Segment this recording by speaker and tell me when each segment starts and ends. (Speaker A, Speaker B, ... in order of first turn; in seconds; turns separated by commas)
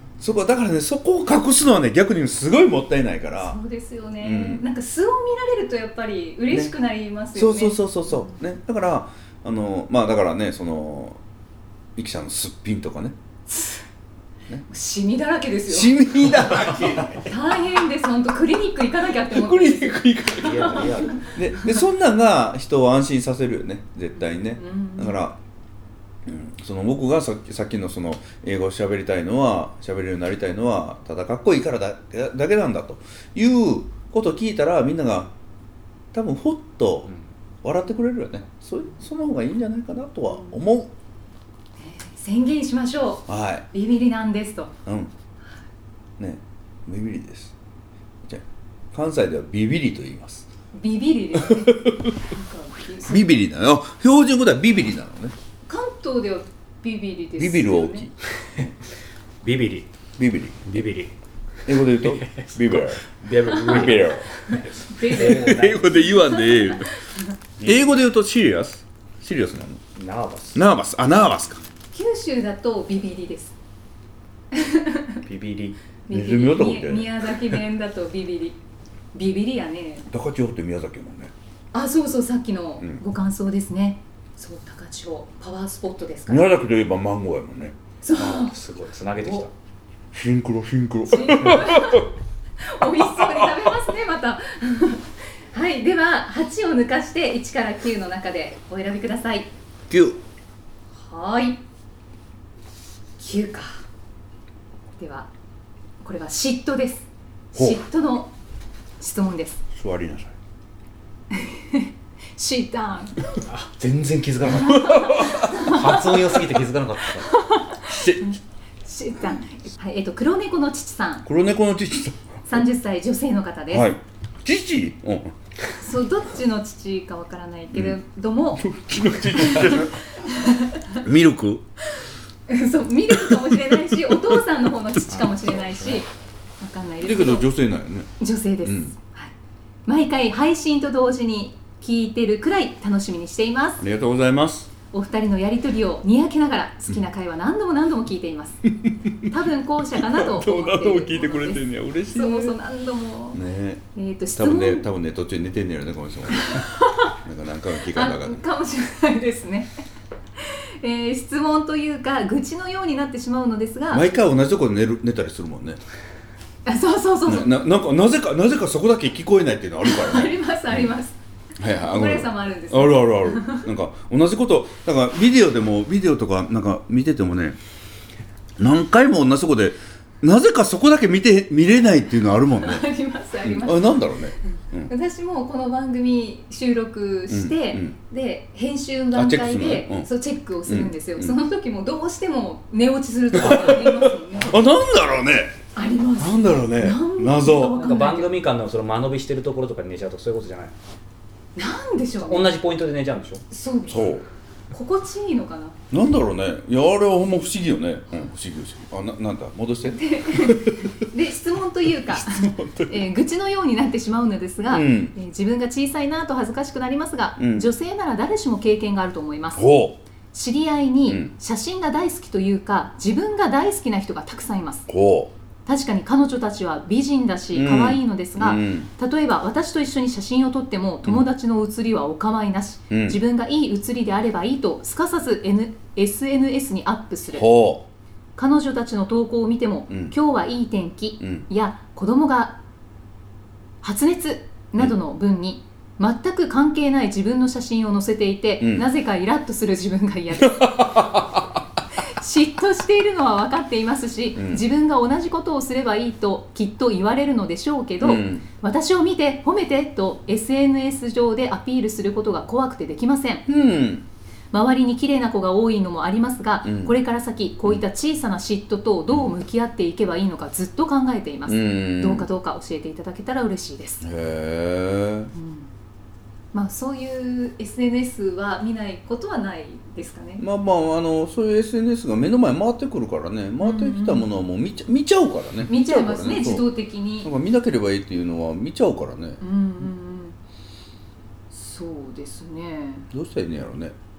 Speaker A: 0.2-3.6, Speaker B: 3.4-8.3, Speaker A: 4.2-4.6, Speaker A: 7.3-11.2, Speaker A: 12.0-13.1, Speaker B: 13.5-13.8, Speaker B: 14.7-16.0, Speaker A: 15.7-17.3, Speaker B: 17.2-21.7, Speaker A: 19.3-25.4, Speaker C: 20.4-21.3, Speaker B: 24.2-25.2, Speaker A: 26.2-35.3, Speaker A: 36.1-37.1, Speaker A: 37.6-40.9, Speaker B: 41.8-44.7, Speaker A: 43.3-43.6, Speaker A: 44.9-45.1, Speaker A: 46.2-47.5, Speaker A: 48.2-50.5, Speaker B: 50.7-53.3, Speaker A: 51.4-52.1, Speaker A: 53.1-55.4, Speaker B: 55.7-58.1, Speaker A: 57.4-58.1, Speaker C: 59.4-59.9, Speaker A: 60.2-60.8, Speaker C: 60.6-61.1, Speaker A: 61.6-63.0, Speaker C: 62.0-66.0, Speaker B: 63.5-67.2, Speaker A: 63.6-64.3, Speaker A: 65.1-66.9, Speaker A: 67.6-69.8, Speaker C: 69.9-70.6, Speaker A: 70.5-71.6, Speaker B: 71.9-73.5, Speaker B: 74.5-75.2, Speaker C: 75.2-75.8, Speaker B: 76.1-78.6, Speaker A: 76.1-77.1, Speaker B: 79.1-80.1, Speaker A: 80.1-81.3, Speaker B: 81.7-86.7, Speaker A: 86.3-87.8, Speaker B: 88.0-88.5, Speaker C: 88.1-89.5, Speaker B: 89.2-89.5, Speaker A: 90.1-92.1, Speaker B: 91.1-92.1, Speaker B: 92.6-99.5, Speaker A: 93.0-93.7, Speaker A: 99.9-100.2, Speaker B: 101.0-101.6, Speaker B: 103.2-103.8, Speaker B: 105.0-105.3, Speaker B: 106.0-108.3, Speaker A: 107.5-107.8, Speaker B: 109.0-109.6, Speaker A: 109.8-110.3, Speaker B: 111.3-113.4, Speaker C: 113.5-117.3, Speaker A: 114.5-115.7, Speaker B: 114.6-116.3, Speaker B: 117.3-121.2, Speaker A: 117.8-118.3, Speaker A: 121.2-122.6, Speaker B: 122.5-123.9, Speaker A: 123.7-125.3, Speaker B: 125.8-128.7, Speaker A: 128.6-130.0, Speaker B: 129.3-131.0, Speaker A: 131.0-131.6, Speaker B: 132.0-136.1, Speaker A: 133.1-134.4, Speaker B: 136.6-137.5, Speaker A: 137.0-138.1, Speaker B: 138.2-139.3, Speaker A: 138.6-138.9, Speaker B: 139.8-143.8, Speaker A: 143.8-144.7, Speaker B: 144.9-148.7, Speaker B: 149.2-153.4, Speaker A: 150.0-152.6, Speaker A: 153.3-153.8, Speaker B: 153.9-154.8, Speaker A: 154.3-158.4, Speaker B: 156.3-157.2, Speaker B: 157.9-159.8, Speaker B: 160.4-164.1, Speaker A: 163.9-165.8, Speaker B: 166.7-167.6, Speaker A: 167.3-170.9, Speaker B: 169.8-171.2, Speaker A: 171.6-177.6, Speaker B: 171.8-173.7, Speaker A: 178.6-182.8, Speaker B: 182.5-184.0, Speaker A: 183.4-184.9, Speaker B: 184.8-194.6, Speaker A: 187.3-187.9, Speaker A: 189.2-190.1, Speaker A: 190.7-191.3, Speaker A: 193.3-195.6, Speaker B: 195.7-198.3, Speaker A: 196.2-197.8, Speaker C: 197.8-200.7, Speaker B: 201.6-202.5, Speaker C: 202.2-203.4, Speaker B: 203.5-204.2, Speaker A: 203.9-204.2, Speaker B: 204.7-205.8, Speaker A: 205.9-210.9, Speaker B: 209.9-219.7, Speaker A: 212.0-212.9, Speaker A: 214.7-215.1, Speaker A: 217.4-217.7, Speaker A: 219.6-220.0, Speaker B: 220.3-224.9, Speaker A: 221.1-221.3, Speaker A: 224.9-225.3, Speaker B: 225.7-237.5, Speaker A: 227.5-228.9, Speaker A: 232.9-233.2, Speaker A: 237.3-237.9, Speaker B: 238.3-242.6, Speaker A: 239.9-240.2, Speaker B: 243.8-251.2, Speaker A: 250.4-251.6, Speaker B: 252.0-263.5, Speaker A: 254.3-254.6, Speaker A: 258.0-258.4, Speaker A: 263.5-264.1, Speaker B: 264.5-274.0, Speaker A: 266.6-266.9, Speaker A: 271.5-272.3, Speaker A: 274.0-275.3, Speaker B: 275.3-275.7, Speaker B: 276.5-280.4, Speaker A: 280.4-286.7, Speaker B: 283.6-284.3, Speaker B: 285.7-287.3, Speaker A: 287.2-289.4, Speaker B: 289.4-290.4, Speaker B: 291.5-293.1, Speaker A: 293.1-293.9